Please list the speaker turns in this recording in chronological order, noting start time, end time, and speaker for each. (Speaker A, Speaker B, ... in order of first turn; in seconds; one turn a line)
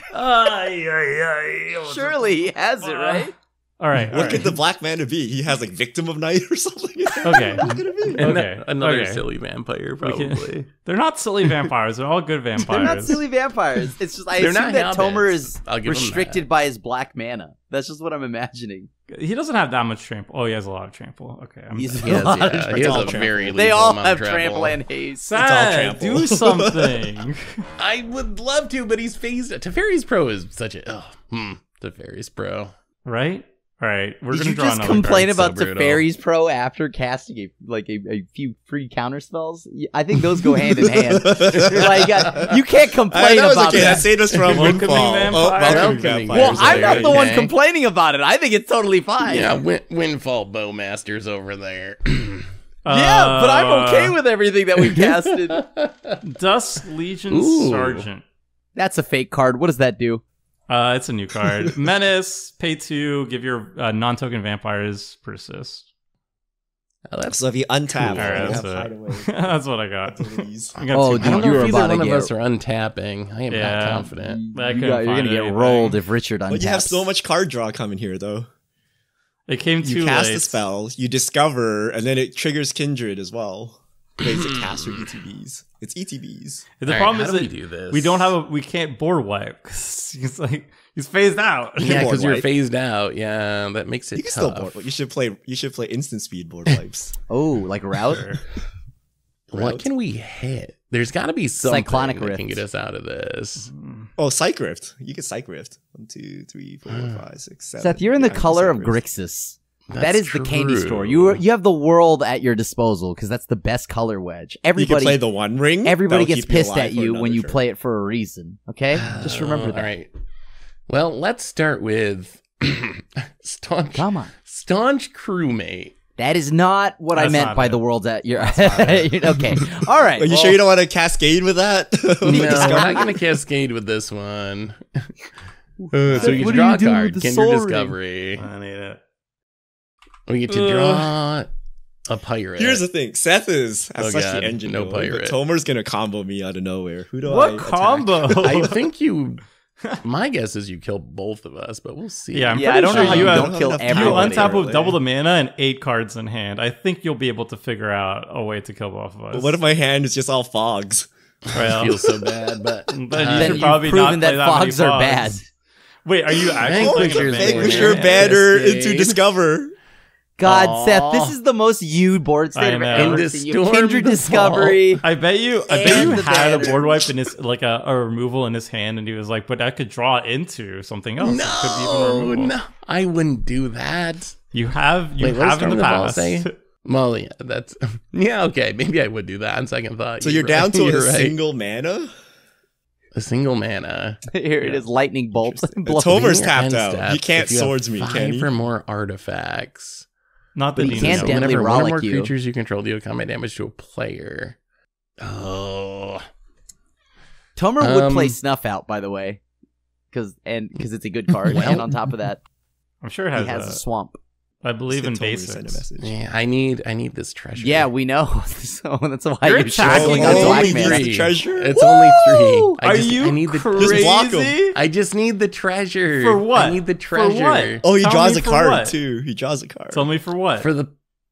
Speaker A: 0.1-2.2
Speaker B: 1.8-3.3
Speaker A: 2.8-4.5
Speaker C: 4.1-8.4
Speaker D: 4.1-4.4
Speaker A: 7.2-9.2
Speaker D: 8.1-10.6
Speaker A: 10.0-13.2
Speaker B: 12.6-18.9
Speaker D: 14.3-16.4
Speaker A: 19.1-22.3
Speaker B: 21.7-25.3
Speaker D: 22.0-24.8
Speaker C: 22.7-23.5
Speaker A: 25.2-27.6
Speaker C: 25.3-27.2
Speaker D: 27.8-32.7
Speaker A: 33.0-35.3
Speaker B: 34.3-44.1
Speaker D: 35.0-36.0
Speaker C: 40.9-42.5
Speaker D: 41.5-42.5
Speaker C: 43.1-47.2
Speaker D: 43.7-47.5
Speaker A: 44.5-47.1
Speaker B: 46.3-49.6
Speaker D: 49.2-52.5
Speaker A: 52.8-54.1
Speaker B: 52.9-55.6
Speaker D: 54.8-56.2
Speaker A: 56.2-58.2
Speaker D: 57.3-58.1
Speaker B: 58.8-60.2
Speaker A: 60.7-65.8
Speaker D: 67.1-68.6
Speaker C: 67.3-69.5
Speaker A: 68.1-71.8
Speaker C: 70.1-70.7
Speaker D: 70.8-74.4
Speaker B: 70.9-72.3
Speaker A: 73.5-76.0
Speaker B: 74.1-77.0
Speaker C: 76.5-78.5
Speaker A: 79.5-80.6
Speaker C: 79.8-86.6
Speaker D: 84.2-85.1
Speaker A: 86.8-92.1
Speaker D: 86.8-88.3
Speaker C: 91.8-92.5
Speaker D: 91.8-94.8
Speaker C: 94.1-97.1
Speaker B: 97.3-98.3
Speaker A: 98.1-98.4
Speaker D: 99.5-103.7
Speaker C: 99.5-99.9
Speaker B: 101.6-102.6
Speaker A: 103.6-104.1
Speaker C: 104.2-109.0
Speaker D: 106.9-107.2
Speaker B: 107.8-115.2
Speaker D: 109.9-111.4
Speaker C: 114.8-117.6
Speaker B: 115.8-119.9
Speaker D: 118.9-120.1
Speaker D: 120.9-125.9
Speaker B: 123.9-124.3
Speaker B: 126.2-130.6
Speaker A: 127.1-127.8
Speaker A: 128.4-129.1
Speaker C: 128.7-129.1
Speaker C: 130.2-133.2
Speaker D: 132.2-135.1
Speaker B: 132.3-133.0
Speaker D: 135.8-138.4
Speaker A: 136.1-136.6
Speaker B: 136.1-137.9
Speaker A: 138.4-139.0
Speaker D: 140.3-141.5
Speaker A: 140.5-141.1
Speaker D: 142.1-142.8
Speaker C: 142.6-148.7
Speaker D: 144.0-145.4
Speaker A: 147.2-148.8
Speaker D: 148.4-149.4
Speaker D: 150.0-153.4
Speaker A: 152.3-159.6
Speaker B: 152.5-154.6
Speaker C: 152.9-155.0
Speaker C: 159.3-161.1
Speaker A: 161.5-162.3
Speaker D: 161.5-163.8
Speaker A: 162.9-165.4
Speaker B: 163.3-165.4
Speaker A: 166.0-168.4
Speaker C: 166.4-169.7
Speaker D: 166.6-169.2
Speaker B: 170.4-175.0
Speaker D: 170.4-171.3
Speaker A: 172.6-173.3
Speaker D: 172.9-175.0
Speaker A: 175.0-182.5
Speaker B: 175.7-177.0
Speaker D: 175.8-176.2
Speaker D: 181.2-184.3
Speaker A: 184.5-186.5
Speaker D: 185.2-191.4
Speaker C: 190.2-192.1
Speaker D: 193.1-194.8
Speaker B: 194.3-196.3
Speaker C: 195.6-198.5
Speaker D: 196.1-200.1
Speaker A: 200.6-201.4
Speaker B: 200.8-202.3
Speaker D: 200.8-204.6
Speaker D: 205.2-206.2
Speaker B: 207.6-209.4
Speaker D: 207.8-208.4
Speaker B: 210.1-212.4
Speaker D: 211.4-211.9
Speaker A: 213.0-213.8
Speaker B: 213.3-214.2
Speaker A: 214.6-215.8
Speaker C: 214.9-216.1
Speaker D: 216.0-217.9
Speaker B: 217.6-221.1
Speaker A: 219.4-220.7
Speaker C: 219.8-221.7
Speaker D: 219.8-224.2
Speaker B: 221.8-222.8
Speaker A: 222.8-224.8
Speaker C: 223.8-224.6
Speaker D: 224.7-227.8
Speaker A: 226.2-228.9
Speaker C: 227.8-230.1
Speaker A: 229.9-230.7
Speaker D: 230.6-230.9